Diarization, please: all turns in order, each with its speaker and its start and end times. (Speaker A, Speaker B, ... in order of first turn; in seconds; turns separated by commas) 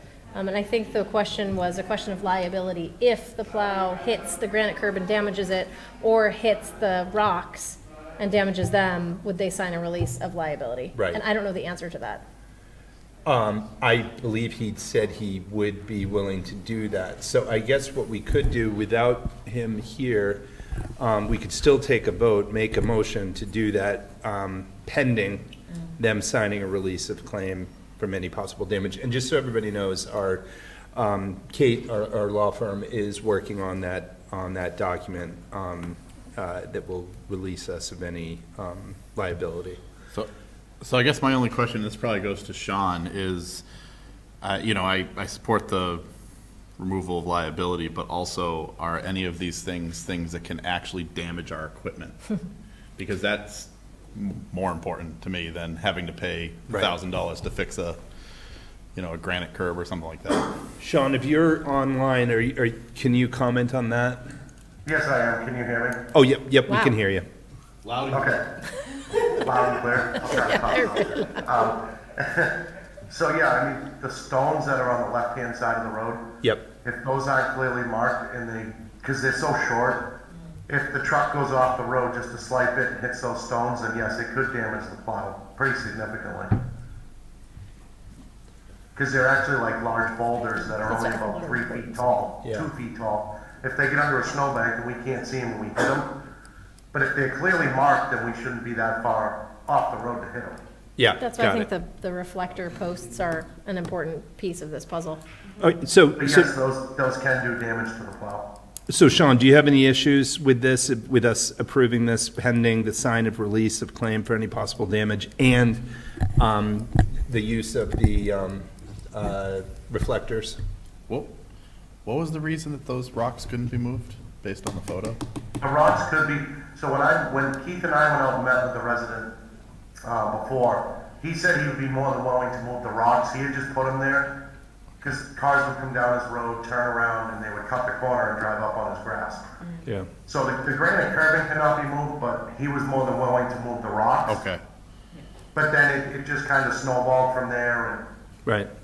Speaker A: 0.3-12.2, Speaker B: 10.9-11.2, Speaker B: 13.2-20.4, Speaker B: 21.0-39.8, Speaker C: 40.8-43.6, Speaker C: 44.4-46.0, Speaker C: 46.8-52.2, Speaker C: 53.0-58.0, Speaker C: 58.9-60.5, Speaker B: 60.8-64.2, Speaker D: 64.8-66.0, Speaker B: 66.1-67.3, Speaker A: 66.7-67.0, Speaker C: 67.8-68.4, Speaker D: 68.1-68.4, Speaker D: 69.3-72.6, Speaker A: 70.3-71.5, Speaker D: 73.1-76.3, Speaker D: 76.8-80.1, Speaker D: 80.7-86.6, Speaker D: 88.9-96.1, Speaker A: 90.8-92.2, Speaker B: 92.4-92.7, Speaker D: 96.9-100.6, Speaker B: 101.0-101.7, Speaker A: 101.2-105.2, Speaker B: 105.6-106.5, Speaker D: 106.2-108.5, Speaker B: 108.9-115.8, Speaker B: 116.4-120.6, Speaker C: 122.0-125.2, Speaker D: 125.6-129.3, Speaker D: 130.0-134.3, Speaker D: 135.0-139.5, Speaker D: 140.2-144.4, Speaker C: 144.2-144.6, Speaker D: 145.5-148.0